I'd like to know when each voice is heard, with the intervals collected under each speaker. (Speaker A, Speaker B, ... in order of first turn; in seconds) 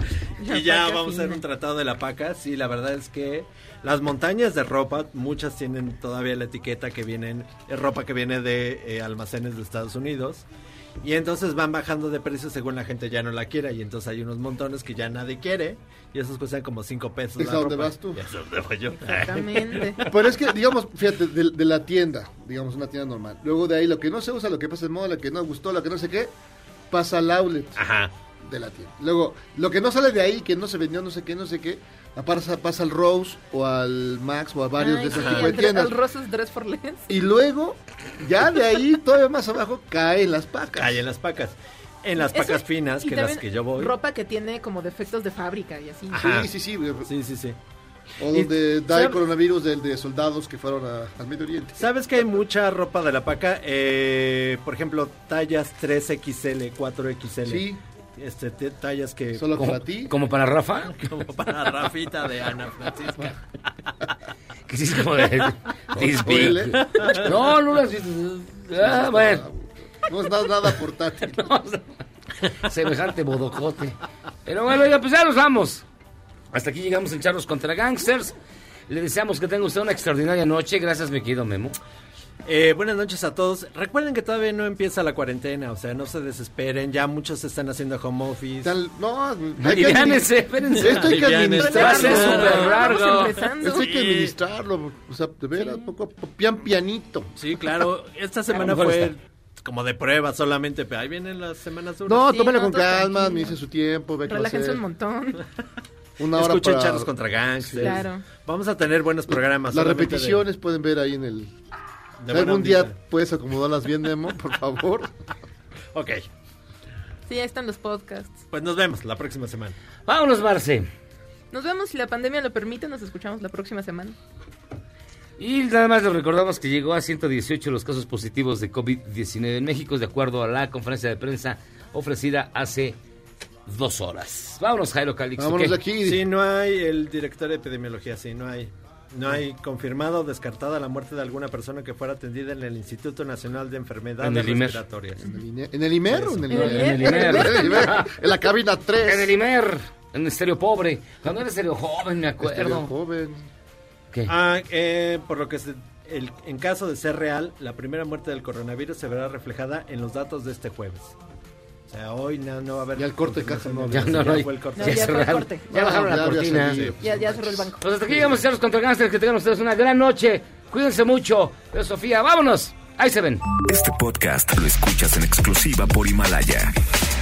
Speaker A: 0.4-1.4, 19.1-20.0, 34.8-37.1, 42.2-46.3, 91.6-93.9, 102.2-103.6, 104.3-105.4, 107.8-108.3, 117.3-118.4, 121.5-124.2, 146.5-147.9, 164.8-165.7, 167.0-167.8
Speaker B: 0.4-10.4, 11.0-20.2, 27.8-28.1, 35.1-35.6, 40.8-43.9, 46.1-46.5, 47.0-47.6, 48.3-49.2, 51.8-57.7, 58.2-59.6, 61.0-63.4, 82.5-88.7, 90.8-92.8, 93.7-94.3, 97.4-102.3, 106.3-110.5, 112.2-112.9, 115.9-116.3, 118.5-119.8, 136.0-145.3, 146.1-146.7, 154.3-161.2, 161.9-165.3, 166.5-166.9
Speaker C: 17.4-18.2, 20.1-26.3, 26.9-27.8, 28.4-36.0, 37.1-41.0, 46.2-47.1, 48.2-51.9, 57.5-57.8, 59.4-60.1, 66.0-67.3, 68.8-71.5, 88.6-92.9, 93.6-97.3, 102.1-104.8, 106.2-108.0, 109.3-111.5, 112.3-115.1, 135.4-136.3, 145.2-149.3, 152.4-153.5, 163.0-164.4, 165.7-168.4
Speaker D: 59.6-61.1, 64.7-69.4, 71.3-72.0, 72.6-75.8, 76.5-78.3, 78.9-81.8, 89.6-93.4, 98.5-99.1, 120.1-120.9, 125.4-133.0, 133.7-135.8, 144.2-144.8, 146.5-148.1, 149.0-152.9, 163.9-166.9, 167.8-173.4
Speaker E: 173.7-176.7